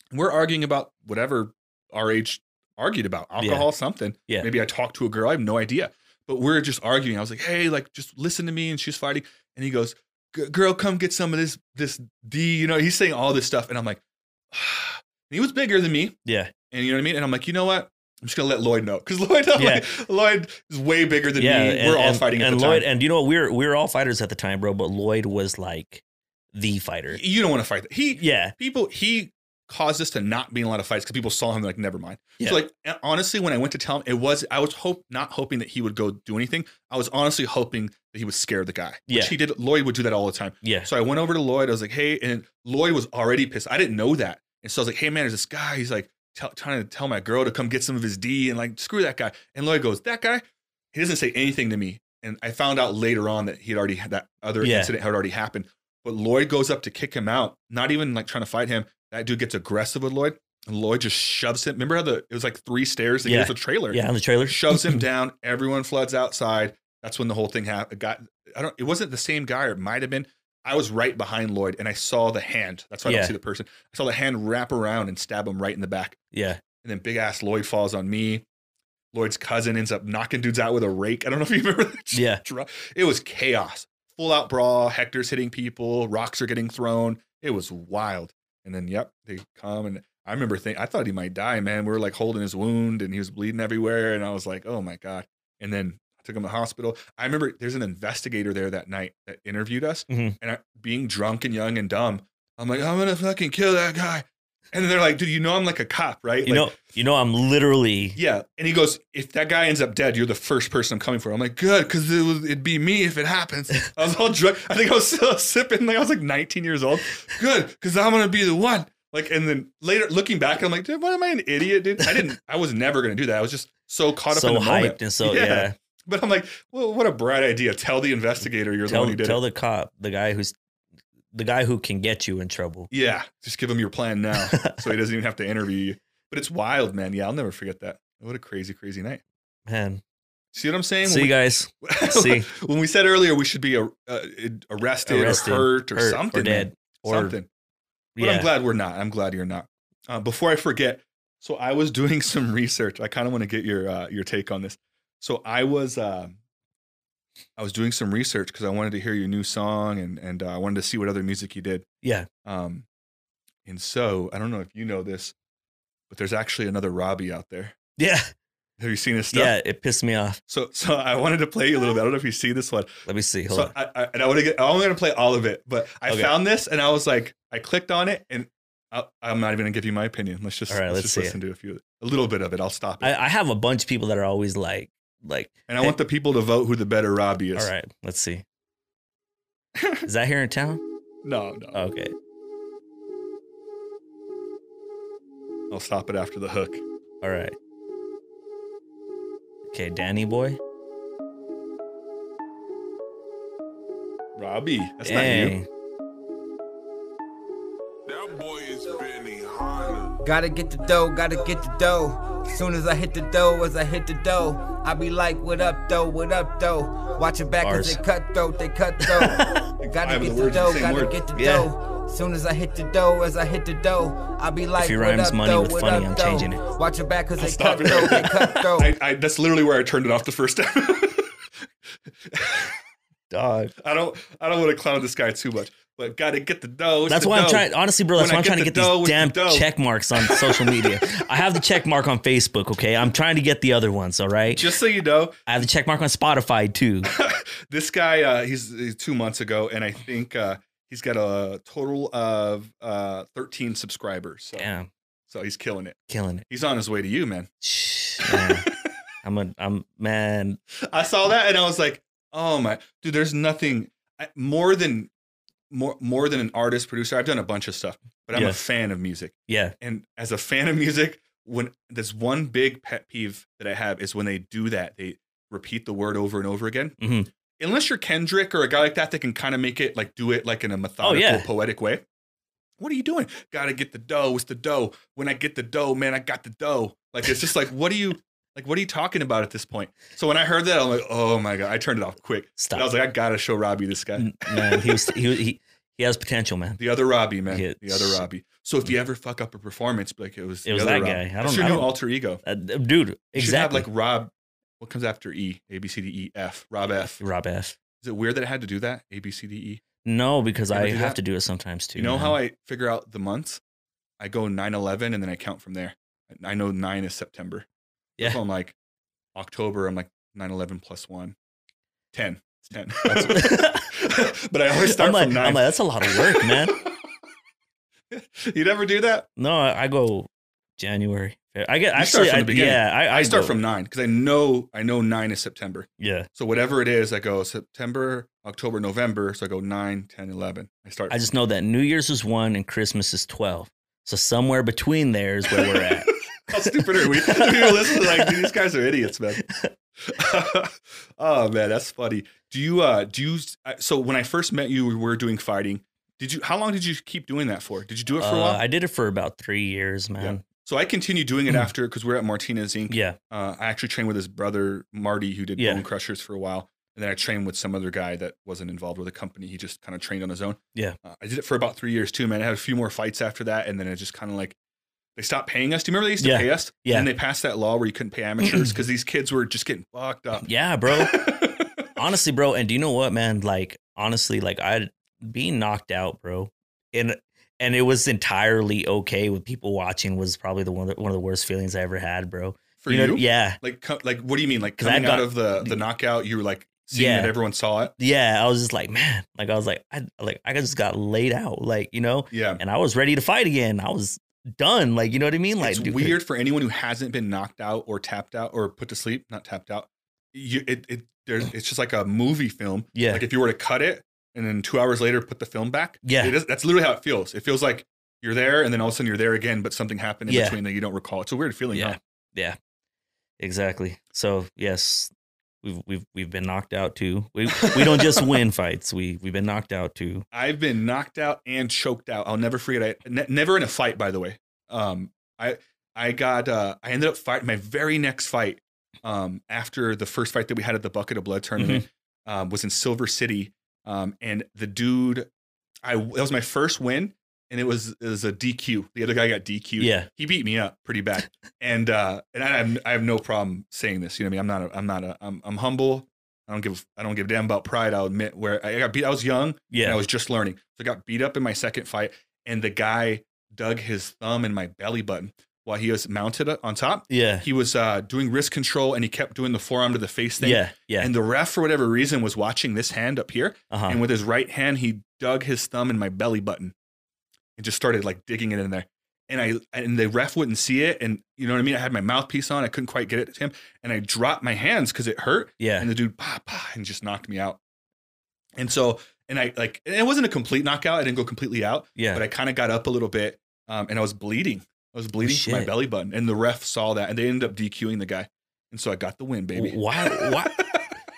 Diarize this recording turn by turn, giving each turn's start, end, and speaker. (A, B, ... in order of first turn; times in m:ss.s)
0:00.1-0:16.2 A
0:03.4-0:03.7 B
0:16.2-0:16.5 B
0:16.7-0:22.9 A
0:19.5-0:19.9 B
0:21.4-0:26.0 B
0:26.5-0:27.2 B
0:27.1-1:16.2 A
0:28.2-0:28.5 B
0:39.1-0:39.3 B
0:40.6-0:40.9 B
0:54.6-0:54.9 B
1:03.2-1:05.0 B
1:13.0-1:13.3 B
1:16.3-1:16.6 B
1:16.7-1:18.4 A
1:19.1-1:46.8 A
1:22.1-1:22.4 B
1:40.1-1:40.4 B
1:46.4-1:48.2 B
1:48.2-2:09.4 A
2:04.3-2:05.7 B
2:08.8-2:10.6 B
2:11.3-2:12.9 B
2:12.9-2:19.2 A
2:14.5-2:14.8 B
2:19.7-2:20.0 B
2:20.5-2:27.5 A
2:21.0-2:22.5 B
2:25.0-2:27.3 B
2:28.2-2:28.5 B
2:28.2-2:36.3 A
2:37.6-2:41.8 A
2:42.0-2:42.3 B
2:42.4-2:42.8 A
2:43.6-2:45.3 A
2:46.1-2:47.8 A
2:48.0-2:48.3 B
2:48.8-2:49.5 A
2:49.3-2:50.4 B
2:50.5-2:52.9 A
2:53.0-2:53.7 B
2:53.5-3:03.1 A
2:56.1-2:56.4 B
3:00.7-3:01.4 B
3:03.0-3:05.9 B
3:05.7-3:07.7 A
3:07.5-3:08.4 B
3:09.8-3:10.1 A
3:10.0-3:10.8 B
3:11.2-3:11.8 A
3:11.7-3:12.1 B
3:15.7-3:16.8 A
3:17.2-3:17.5 B
3:19.7-3:20.6 B
3:24.3-3:25.6 A
3:25.0-3:25.7 B
3:28.1-3:30.2 C
3:30.2-3:48.9 D
3:37.6-3:38.0 B
3:39.0-3:39.7 B
3:39.8-3:41.1 A
3:41.3-3:41.7 B
3:44.8-3:46.6 B
3:47.4-3:51.4 A
3:52.2-3:52.8 A
3:53.3-3:53.7 B
3:53.8-4:01.2 A
3:57.1-4:04.6 B
4:04.5-4:05.5 A
4:05.5-4:07.1 B
4:07.1-4:14.6 A
4:14.6-4:14.9 B
4:15.3-4:17.5 A
4:16.1-4:16.4 B
4:17.6-4:18.7 B
4:18.2-4:18.7 A
4:19.2-4:20.6 B
4:20.8-4:25.1 A
4:25.7-4:37.0 A
4:28.3-4:28.6 B
4:29.5-4:29.7 B
4:37.0-4:37.3 B
4:37.6-4:42.0 A
4:41.0-4:41.4 B
4:42.8-4:55.1 A
4:52.6-4:52.9 B
4:54.2-4:56.8 B
4:56.8-5:02.4 A
4:57.5-4:58.2 B
5:00.6-5:03.9 B
5:03.3-5:07.2 A
5:07.2-5:07.8 B
5:08.0-5:09.8 A
5:10.0-5:12.4 B
5:10.7-5:11.2 A
5:12.0-5:13.6 A
5:14.2-5:17.6 A
5:18.2-5:18.8 A
5:19.3-5:21.4 A
5:22.1-5:26.8 A
5:23.0-5:23.9 B
5:24.8-5:26.8 B
5:28.1-5:29.3 A
5:29.4-5:33.6 B
5:31.9-5:41.2 A
5:36.0-5:36.3 B
5:41.1-5:48.3 B
5:45.5-5:45.9 A
5:46.5-5:49.4 A
5:50.0-5:58.6 A
5:58.2-6:00.4 B
6:00.2-6:14.6 A
6:02.9-6:03.2 B
6:05.6-6:05.8 B
6:15.2-6:21.9 A
6:16.2-6:17.1 B
6:18.4-6:18.8 B
6:20.4-6:21.4 B
6:22.0-6:33.6 B
6:32.8-6:37.9 A
6:34.8-6:35.8 B
6:36.9-6:37.3 B
6:38.0-6:46.2 B
6:42.3-6:42.6 A
6:45.6-7:02.0 A
6:52.9-6:53.2 B
6:56.0-6:56.4 B
7:00.3-7:00.6 B
7:01.7-7:02.6 B
7:03.4-7:05.1 B
7:05.6-7:10.2 B
7:07.6-7:08.4 A
7:10.3-7:25.3 A
7:21.6-7:21.8 B
7:25.8-7:56.7 A
7:29.8-7:30.1 B
7:39.7-7:40.0 B
7:47.1-7:47.4 B
7:50.4-7:51.1 B
7:53.7-7:54.0 B
7:57.6-8:07.6 A
8:05.6-8:05.9 B
8:08.6-8:20.9 A
8:12.0-8:12.2 B
8:15.2-8:15.7 B
8:19.5-8:20.6 B